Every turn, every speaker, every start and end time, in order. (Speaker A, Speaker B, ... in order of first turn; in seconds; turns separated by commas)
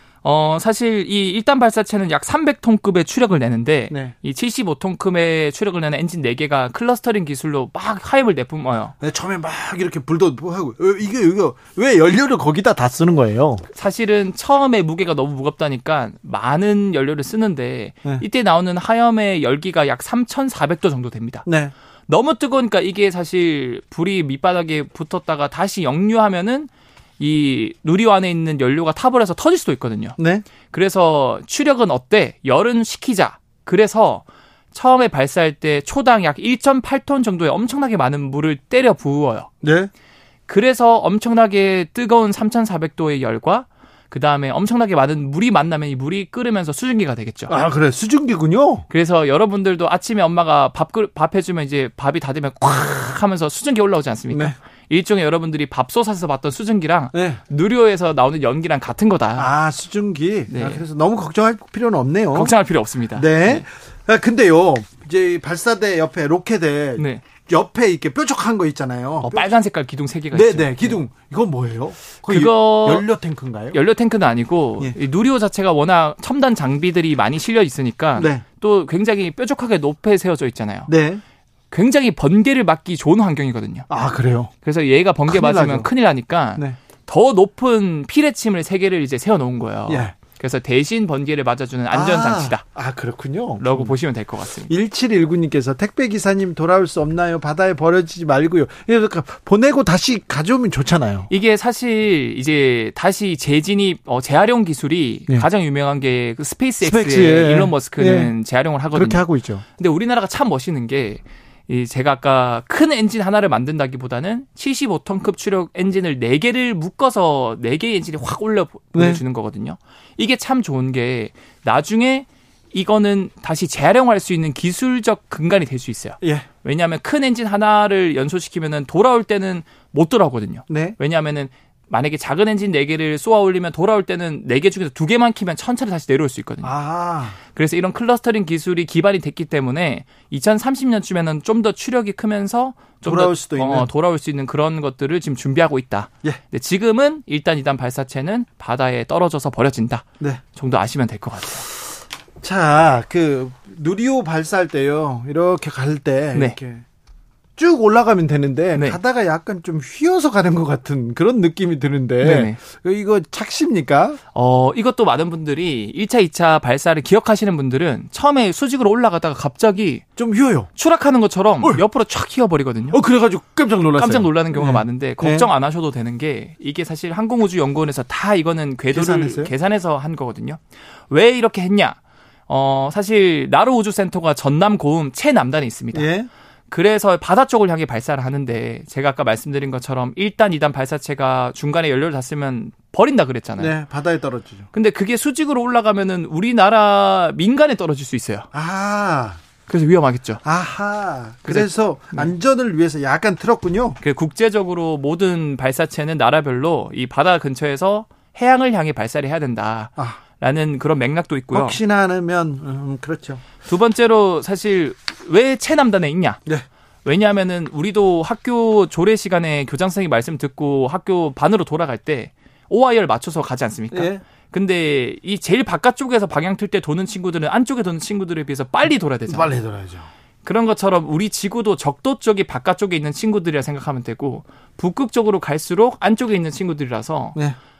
Speaker A: 0.2-8.9, Speaker B: 9.0-13.6, Speaker A: 13.7-21.4, Speaker B: 21.4-21.7, Speaker A: 22.1-30.2, Speaker B: 30.2-30.4, Speaker A: 30.7-39.5, Speaker B: 39.6-39.9, Speaker A: 40.5-47.5, Speaker B: 47.5-48.8, Speaker A: 48.9-59.5, Speaker B: 57.1-57.4, Speaker B: 59.4-62.5, Speaker A: 60.5-60.8, Speaker A: 62.3-63.6, Speaker B: 63.1-69.5, Speaker A: 67.0-67.2, Speaker A: 69.2-71.0, Speaker B: 70.3-73.8, Speaker A: 72.2-73.1, Speaker A: 73.7-80.9, Speaker B: 78.2-78.4, Speaker B: 80.9-81.2, Speaker A: 81.7-83.8, Speaker B: 83.9-84.5, Speaker A: 84.6-92.6, Speaker B: 85.3-85.9, Speaker B: 89.9-90.1, Speaker B: 91.9-93.9, Speaker A: 93.6-94.7, Speaker B: 94.7-101.3, Speaker A: 101.3-109.2, Speaker B: 106.8-108.3, Speaker B: 108.9-109.6, Speaker A: 109.8-136.7, Speaker B: 118.9-119.2, Speaker B: 126.2-126.5, Speaker B: 130.7-130.9, Speaker B: 136.6-137.4, Speaker A: 137.4-151.7, Speaker B: 143.0-143.9, Speaker B: 152.4-156.8, Speaker B: 157.6-164.2, Speaker A: 162.2-162.6, Speaker A: 164.3-170.1, Speaker B: 170.2-170.7, Speaker A: 170.8-173.0, Speaker B: 172.9-175.5, Speaker A: 174.0-186.1, Speaker B: 178.9-179.5, Speaker B: 185.9-186.3, Speaker A: 186.7-193.7, Speaker B: 193.6-194.7, Speaker A: 194.7-198.5, Speaker B: 198.5-199.4, Speaker A: 199.7-200.4, Speaker B: 200.4-204.0, Speaker A: 201.4-202.3, Speaker A: 204.0-211.8, Speaker B: 211.5-213.4, Speaker A: 213.6-216.4, Speaker A: 217.0-229.5, Speaker B: 223.9-224.2, Speaker B: 229.3-230.1, Speaker A: 230.4-237.4